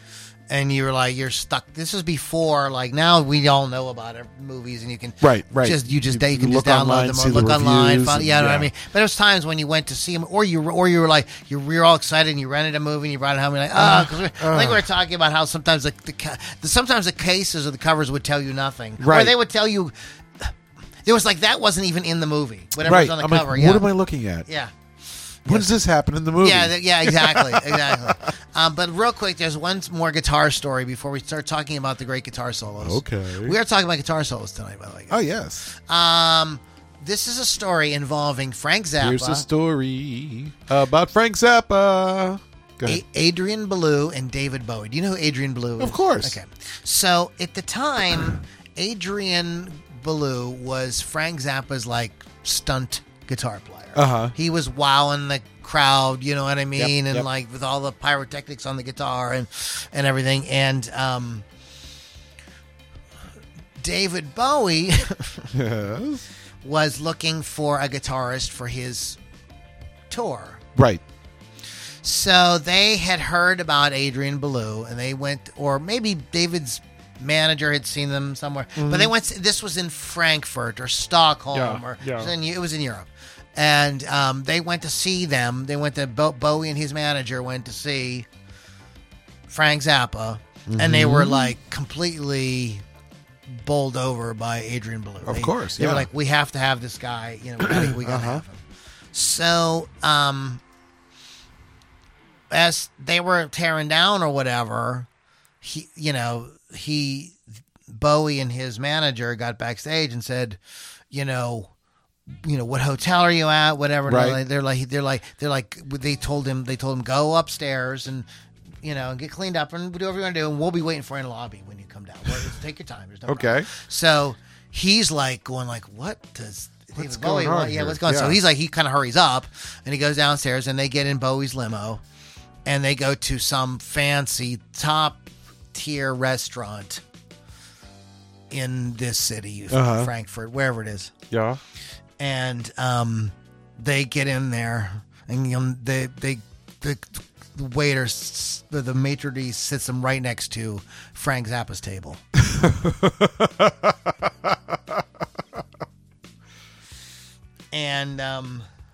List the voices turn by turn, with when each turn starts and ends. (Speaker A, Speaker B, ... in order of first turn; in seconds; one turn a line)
Speaker A: 0.5-20.5
Speaker B: 5.2-8.7
Speaker B: 13.8-14.9
Speaker B: 19.0-19.3
Speaker A: 21.0-23.9
Speaker B: 22.8-24.4
Speaker A: 24.4-24.7
Speaker A: 25.4-25.7
Speaker B: 25.4-28.3
Speaker A: 26.4-39.5
Speaker B: 32.8-33.6
Speaker B: 35.1-35.6
Speaker B: 39.0-43.0
Speaker A: 42.9-61.4
Speaker B: 45.8-46.4
Speaker B: 53.9-54.3
Speaker B: 56.8-57.3
Speaker A: 63.8-65.5
Speaker B: 65.5-66.2
Speaker A: 66.6-69.2
Speaker A: 70.1-70.6
Speaker B: 70.8-71.0
Speaker A: 72.0-88.3
Speaker B: 78.8-79.1
Speaker B: 81.5-82.3
Speaker A: 89.5-92.8
Speaker B: 90.7-91.5
Speaker A: 93.5-98.6
Speaker B: 95.2-96.1
Speaker B: 97.6-98.4
Speaker A: 99.1-100.6
Speaker A: 102.5-105.1
Speaker A: 105.6-110.6
Speaker A: 111.1-111.7
Speaker A: 112.4-118.2
Speaker B: 114.1-114.4
Speaker A: 118.8-132.0
Speaker B: 123.3-123.7
Speaker B: 127.0-128.4
Speaker A: 132.7-137.0
Speaker A: 138.5-141.1
Speaker B: 139.7-140.1
Speaker B: 141.3-141.6
Speaker A: 142.2-152.2
Speaker B: 152.3-155.0
Speaker A: 157.7-158.7